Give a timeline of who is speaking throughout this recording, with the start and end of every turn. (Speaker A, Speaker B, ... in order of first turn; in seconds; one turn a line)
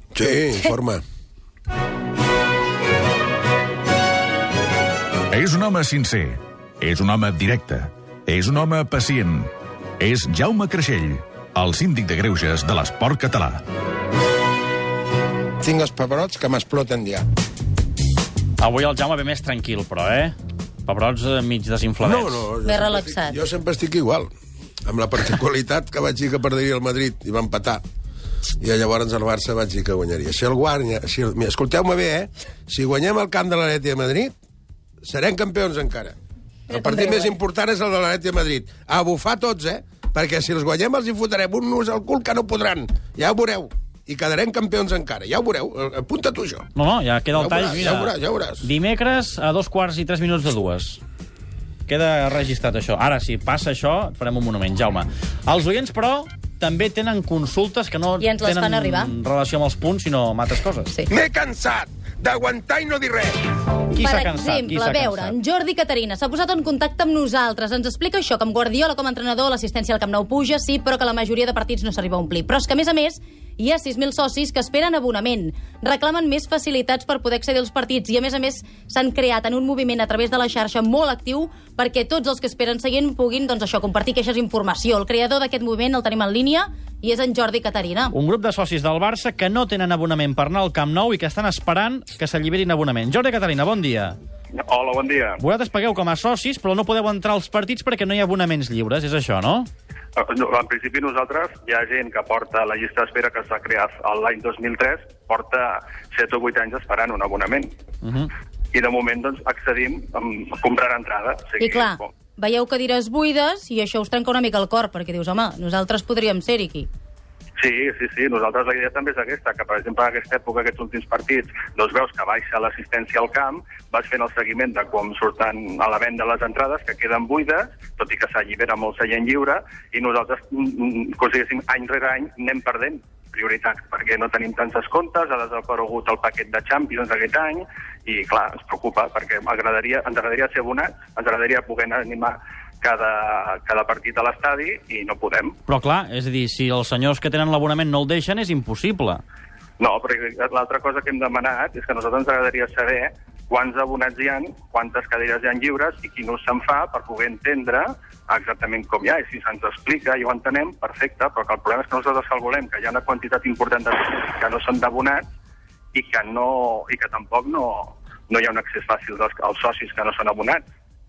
Speaker A: 0.1-1.0
Speaker B: 5.3-13.6
Speaker A: 15.6-17.2
Speaker C: 18.6-22.5
Speaker A: 22.0-24.3
Speaker D: 22.6-23.4
Speaker A: 24.8-27.8
Speaker A: 28.6-34.3
Speaker A: 35.0-36.1
Speaker A: 36.7-46.7
Speaker D: 36.7-37.3
Speaker C: 46.7-51.0
Speaker A: 47.3-48.7
Speaker C: 51.9-60.9
Speaker D: 58.2-59.1
Speaker A: 61.1-63.3
Speaker D: 63.9-88.1
Speaker C: 64.0-65.3
Speaker C: 88.1-94.2
Speaker E: 94.6-95.4
Speaker C: 95.4-99.7
Speaker E: 100.2-107.7
Speaker C: 108.0-108.3
Speaker E: 108.7-112.1
Speaker D: 111.6-116.9
Speaker E: 117.6-145.6
Speaker C: 145.7-149.2
Speaker E: 149.8-165.2
Speaker E: 165.9-170.6